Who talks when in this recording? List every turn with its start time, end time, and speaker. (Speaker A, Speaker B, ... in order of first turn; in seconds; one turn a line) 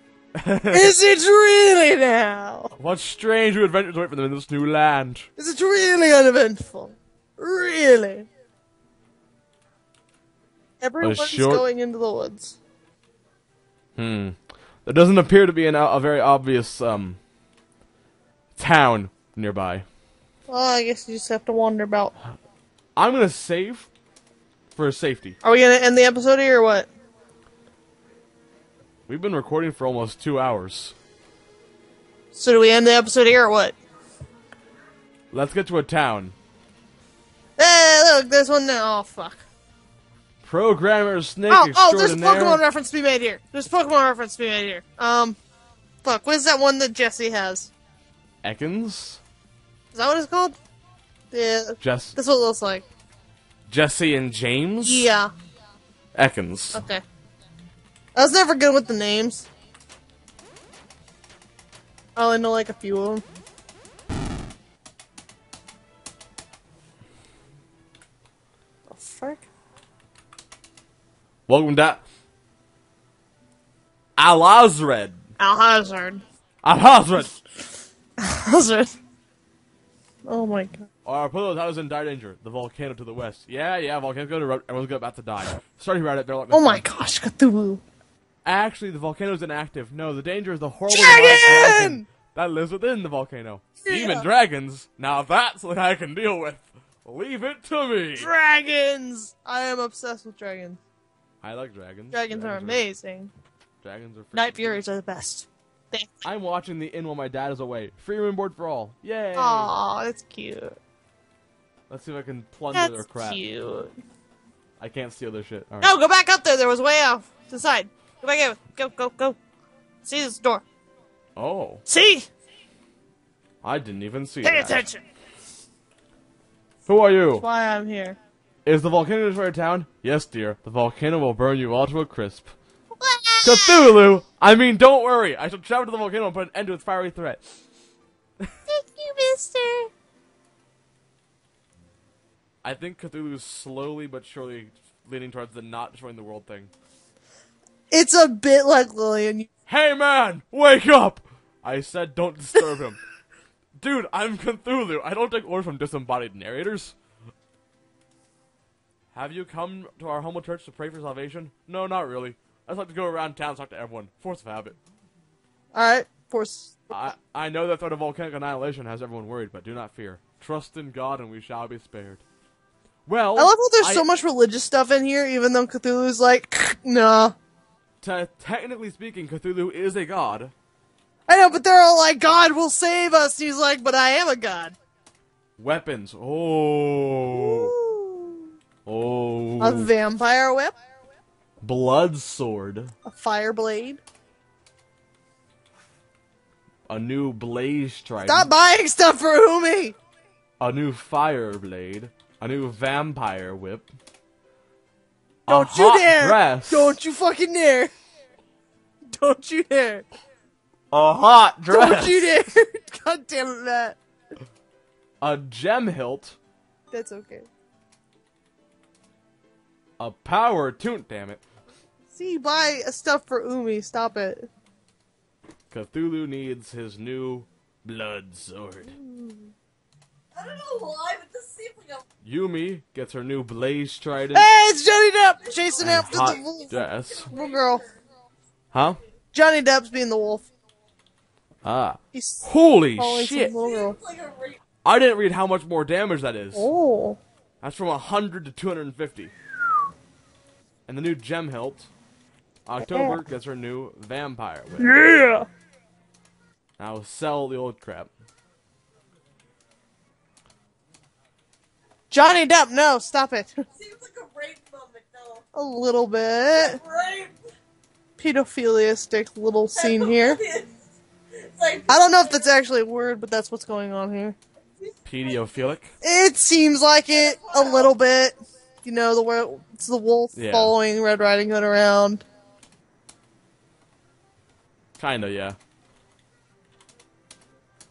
Speaker A: 0.4-0.9
Speaker B: 0.7-2.7
Speaker A: 2.8-5.3
Speaker B: 5.4-8.3
Speaker B: 10.8-12.6
Speaker A: 11.0-11.6
Speaker A: 13.9-17.2
Speaker A: 18.6-19.8
Speaker B: 20.5-22.1
Speaker A: 22.9-23.9
Speaker A: 24.7-25.4
Speaker B: 25.4-26.9
Speaker A: 29.1-30.9
Speaker B: 32.3-33.7
Speaker A: 35.3-36.4
Speaker B: 37.6-39.4
Speaker A: 40.4-42.6
Speaker B: 41.5-45.4
Speaker B: 46.0-47.7
Speaker A: 48.4-49.2
Speaker B: 49.9-50.6
Speaker B: 51.3-52.8
Speaker A: 51.8-52.2
Speaker A: 53.7-55.1
Speaker B: 54.8-55.3
Speaker A: 56.1-56.8
Speaker B: 56.7-57.0
Speaker B: 58.1-59.5
Speaker B: 62.1-63.2
Speaker B: 68.9-69.4
Speaker A: 71.5-72.0
Speaker A: 74.2-75.2
Speaker B: 75.4-76.2
Speaker A: 76.6-77.3
Speaker B: 78.2-78.9
Speaker B: 80.3-80.9
Speaker A: 81.0-86.9
Speaker B: 86.5-87.8
Speaker A: 88.4-98.3
Speaker B: 90.9-92.0
Speaker B: 93.8-94.2
Speaker B: 98.2-100.8
Speaker A: 101.4-102.8
Speaker B: 102.1-103.3
Speaker A: 103.8-104.8
Speaker B: 104.3-106.2
Speaker A: 106.2-109.7
Speaker B: 109.3-110.8
Speaker A: 111.9-113.4
Speaker B: 112.7-113.9
Speaker A: 114.8-115.9
Speaker B: 115.8-119.4
Speaker B: 120.0-120.6
Speaker A: 121.3-121.8
Speaker B: 121.9-122.3
Speaker A: 123.6-124.8
Speaker B: 124.4-125.0
Speaker A: 126.8-127.4
Speaker B: 127.4-128.2
Speaker A: 128.6-132.5
Speaker B: 133.0-133.9
Speaker A: 133.4-137.4
Speaker B: 138.7-139.9
Speaker A: 142.6-146.7
Speaker B: 147.9-149.5
Speaker A: 149.7-153.0
Speaker A: 153.8-156.9
Speaker A: 159.1-164.8
Speaker B: 165.7-166.9
Speaker A: 166.9-172.2
Speaker A: 173.1-174.0
Speaker B: 173.3-177.3
Speaker A: 178.0-180.5
Speaker B: 181.3-184.7
Speaker A: 185.6-187.7
Speaker B: 187.3-188.5
Speaker A: 188.8-189.9
Speaker B: 189.6-190.7
Speaker A: 191.6-192.9
Speaker B: 193.0-194.0
Speaker A: 196.9-198.5
Speaker B: 198.2-199.9
Speaker A: 200.6-203.8
Speaker A: 205.5-207.0
Speaker B: 205.5-207.9
Speaker B: 209.1-210.1
Speaker A: 210.9-212.3
Speaker B: 211.7-214.0
Speaker A: 215.2-216.4
Speaker B: 216.9-217.5
Speaker A: 220.0-221.4
Speaker B: 222.1-224.5
Speaker A: 225.7-228.9
Speaker B: 228.9-229.5
Speaker C: 230.3-232.0
Speaker A: 232.2-234.5
Speaker B: 234.3-237.8
Speaker C: 235.4-238.0
Speaker A: 235.8-237.3
Speaker A: 238.7-239.0
Speaker B: 239.3-240.4
Speaker A: 241.6-243.5
Speaker B: 242.1-244.0
Speaker C: 243.5-244.6
Speaker A: 244.8-246.7
Speaker B: 246.5-247.2
Speaker A: 247.6-249.3
Speaker A: 250.9-251.9
Speaker A: 252.7-254.9
Speaker B: 252.8-253.2
Speaker B: 254.8-255.5
Speaker A: 256.8-258.1
Speaker B: 262.1-263.6
Speaker C: 263.7-265.4
Speaker B: 265.5-266.8
Speaker C: 266.5-267.3
Speaker B: 268.2-270.4
Speaker C: 269.8-270.7
Speaker C: 271.4-272.5
Speaker B: 271.9-274.4
Speaker C: 274.8-275.3
Speaker A: 275.0-275.9
Speaker B: 276.0-282.2
Speaker C: 277.1-277.9
Speaker A: 280.3-280.7
Speaker A: 285.0-285.6